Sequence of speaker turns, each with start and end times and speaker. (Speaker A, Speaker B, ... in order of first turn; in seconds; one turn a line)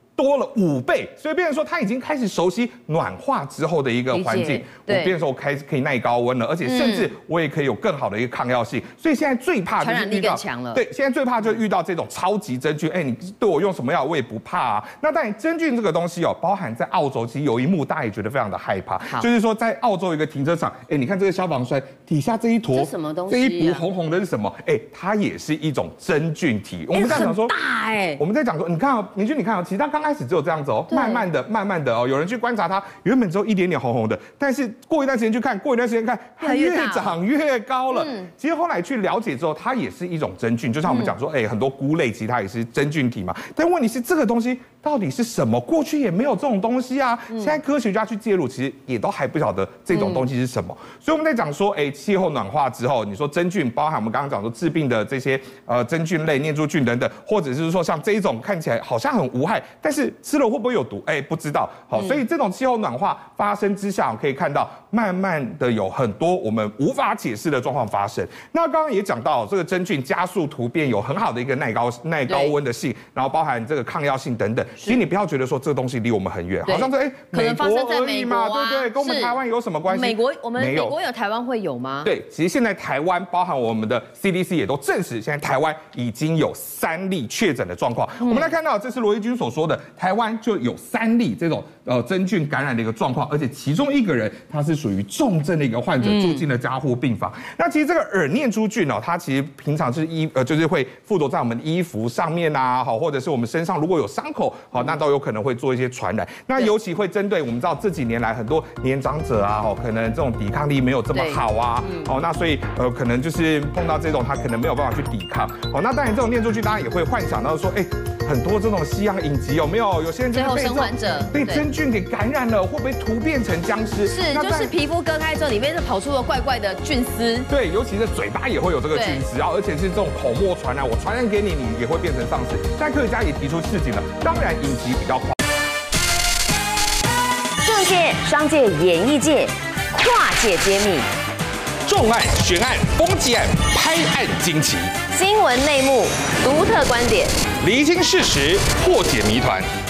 Speaker A: 0.1-27.5
Speaker B: 4.1-5.1
Speaker B: 6.6-7.1
Speaker B: 9.8-10.8
Speaker B: 22.7-23.8
Speaker B: 26.9-28.2
Speaker A: 28.2-81.0
Speaker B: 30.9-31.2
Speaker B: 36.4-37.1
Speaker B: 37.9-38.3
Speaker B: 40.9-41.1
Speaker B: 47.3-47.6
Speaker B: 49.9-50.2
Speaker B: 61.9-62.2
Speaker B: 72.3-72.5
Speaker B: 76.7-79.3
Speaker B: 79.9-82.1
Speaker A: 82.0-124.7
Speaker B: 88.2-88.5
Speaker B: 96.0-96.4
Speaker B: 111.1-112.1
Speaker B: 120.3-121.6
Speaker B: 124.0-127.5
Speaker A: 127.5-135.4
Speaker B: 128.9-129.2
Speaker B: 137.6-141.1
Speaker A: 141.8-144.9
Speaker B: 145.1-147.3
Speaker A: 147.6-149.7